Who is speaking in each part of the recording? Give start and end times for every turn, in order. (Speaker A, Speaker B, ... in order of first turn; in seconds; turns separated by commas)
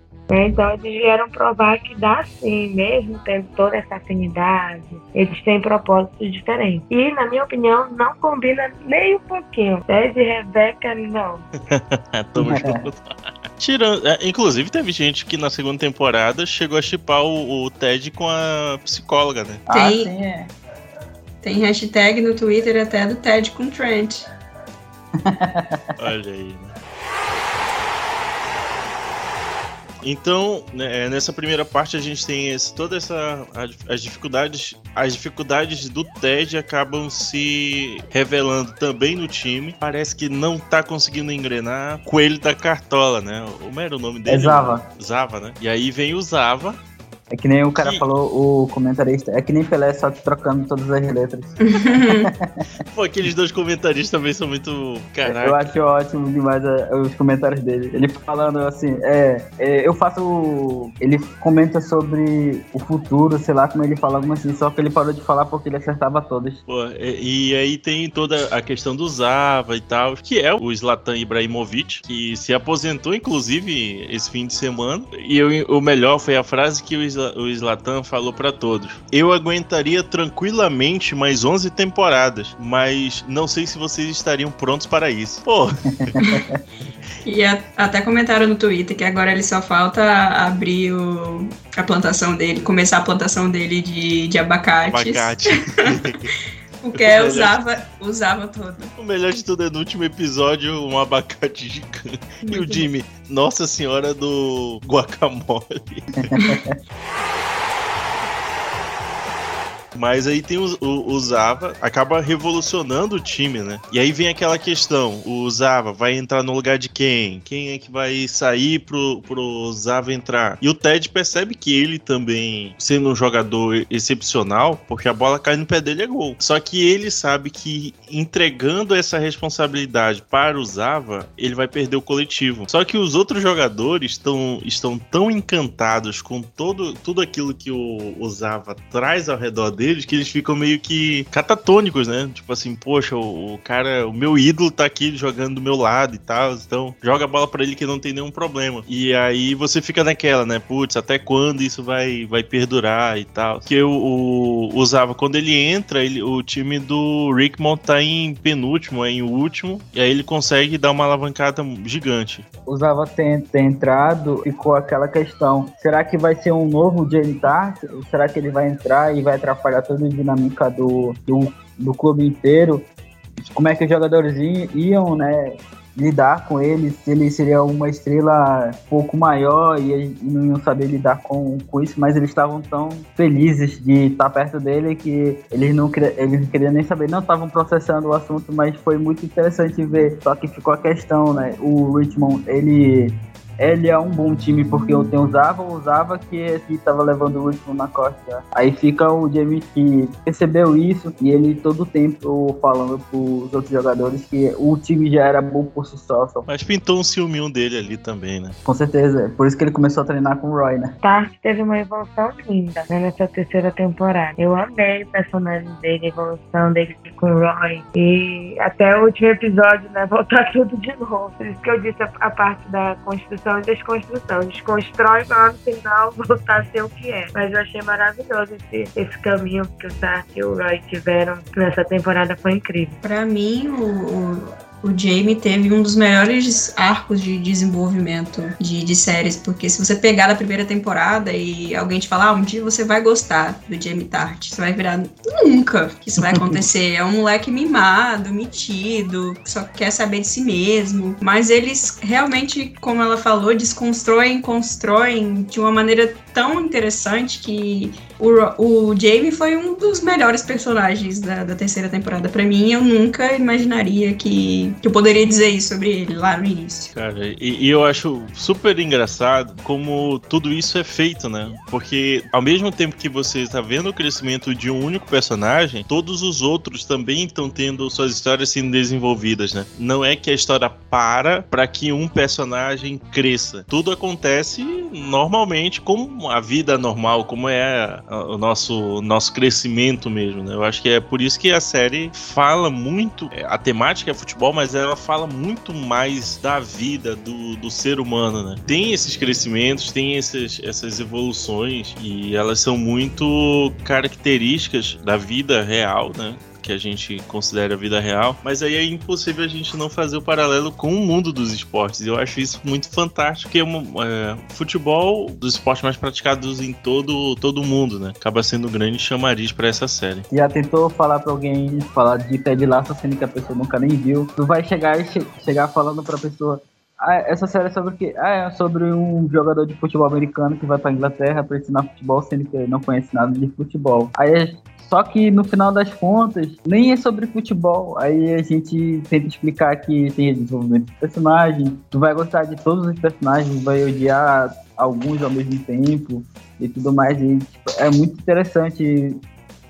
Speaker A: 0.3-11.4, Speaker B: 11.7-19.6, Speaker C: 12.3-12.8, Speaker C: 19.7-20.5, Speaker D: 19.7-20.1, Speaker D: 21.4-24.2, Speaker C: 25.2-25.9, Speaker B: 26.0-26.7, Speaker B: 30.0-46.8, Speaker C: 44.3-44.9, Speaker C: 47.3-52.4, Speaker B: 47.8-48.0, Speaker D: 51.6-52.3, Speaker B: 52.9-55.7, Speaker C: 55.2-66.6, Speaker B: 66.7-86.1, Speaker C: 86.1-86.6, Speaker D: 87.2-95.9, Speaker B: 94.8-96.3, Speaker D: 96.8-98.9, Speaker B: 96.9-97.6, Speaker B: 99.0-106.3, Speaker D: 102.5-102.8, Speaker C: 106.3-106.7, Speaker B: 109.9-162.4, Speaker C: 162.7-172.9, Speaker C: 173.4-206.5, Speaker B: 206.5-208.6, Speaker C: 208.7-210.9, Speaker A: 211.0-233.0, Speaker D: 233.0-266.9, Speaker C: 246.2-246.6, Speaker B: 266.9-320.3, Speaker C: 320.3-349.2